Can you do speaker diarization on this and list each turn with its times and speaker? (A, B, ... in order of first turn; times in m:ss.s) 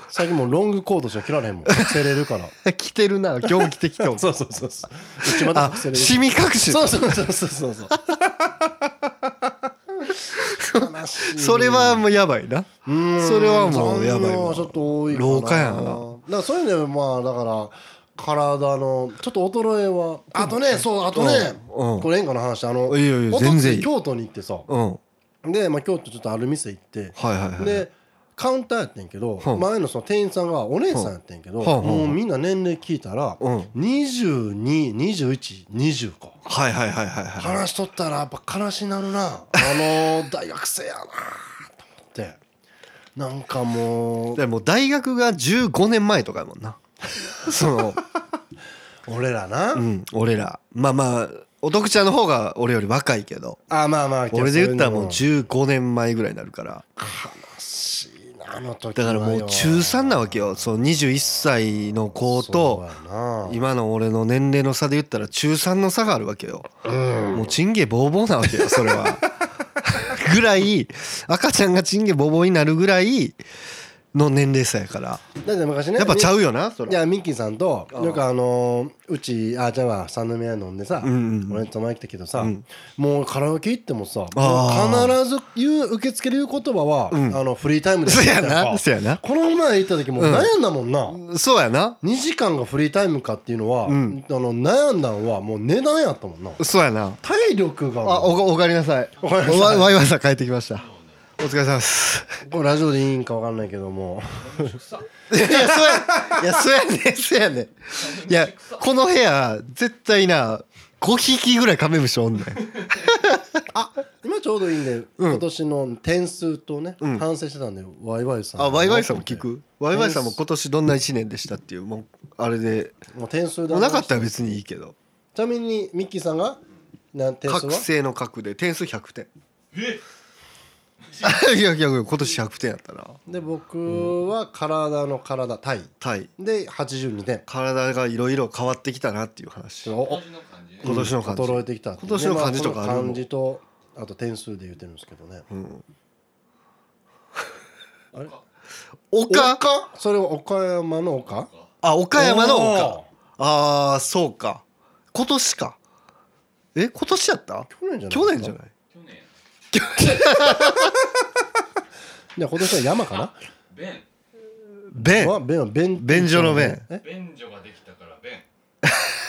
0:00.1-0:02.5 A
0:01.7-0:02.0 B
0:02.6-0:04.3 B
0:03.6-0:08.0 A
0:05.2-0:07.1 B
0:10.0-0:12.0 A
0:10.4-0:16.1 B
0:12.8-0:24.7 A
0:20.4-0:22.1 B
0:22.9-0:23.9 B
0:24.7-0:25.0 B
0:25.4-0:36.4 A
0:27.2-0:27.9 B
0:31.6-0:32.2 B
0:33.4-0:33.7 B
0:36.4-0:37.6 B
0:37.4-0:42.4 A
0:43.2-0:44.4 A
0:44.4-0:46.8 B
0:47.4-0:48.0 B
0:49.1-0:49.9 A
0:49.8-0:53.6 B
0:53.7-0:55.2 A
0:54.3-0:56.8 B
0:57.0-1:00.5 A
0:59.0-1:02.8 B
1:02.2-1:03.6 A
1:03.5-1:06.7 B
1:06.8-1:07.6 A
1:07.3-1:09.3 B
1:09.8-1:13.4 B
1:14.1-1:15.2 B
1:15.4-1:16.4 A
1:16.0-1:17.0 B
1:16.9-1:31.2 A
1:17.9-1:18.2 B
1:21.0-1:21.6 B
1:22.4-1:22.6 B
1:24.4-1:25.2 B
1:27.1-1:27.4 B
1:28.0-1:29.2 B
1:30.2-1:30.5 B
1:31.1-1:32.0 B
1:32.0-1:36.6 A
1:33.9-1:34.2 B
1:36.6-1:37.2 B
1:37.2-1:38.4 A
1:38.0-1:40.9 B
1:39.2-1:40.0 A
1:40.8-1:41.1 C
1:41.4-1:42.4 B
1:42.4-1:44.7 A
1:44.4-1:45.1 C
1:45.3-1:53.5 B
1:48.0-1:48.8 C
1:53.7-2:00.4 A
1:58.6-2:03.0 B
2:03.1-2:04.4 A
2:03.7-2:05.0 B
2:05.4-2:06.6 A
2:07.1-2:07.9 A
2:07.5-2:09.3 B
2:09.7-2:10.0 C
2:11.1-2:11.4 C
2:11.2-2:13.2 B
2:13.3-2:17.5 A
2:16.0-2:16.3 B
2:17.5-2:19.9 B
2:19.8-2:20.2 A
2:20.0-2:21.0 C
2:20.8-2:25.5 A
2:20.8-2:23.2 B
2:25.5-2:25.8 B
2:28.1-2:28.4 C
2:29.1-2:29.6 B
2:29.3-2:31.5 A
2:31.3-2:31.7 C
2:31.8-2:35.8 B
2:32.2-2:33.1 A
2:36.8-2:38.7 B
2:37.7-2:38.6 A
2:38.9-2:39.4 C
2:39.7-2:40.9 B
2:42.4-2:43.3 A
2:43.1-2:44.1 C
2:44.9-2:45.4 B
2:45.0-2:47.0 A
2:46.0-2:46.8 B
2:47.0-2:48.5 C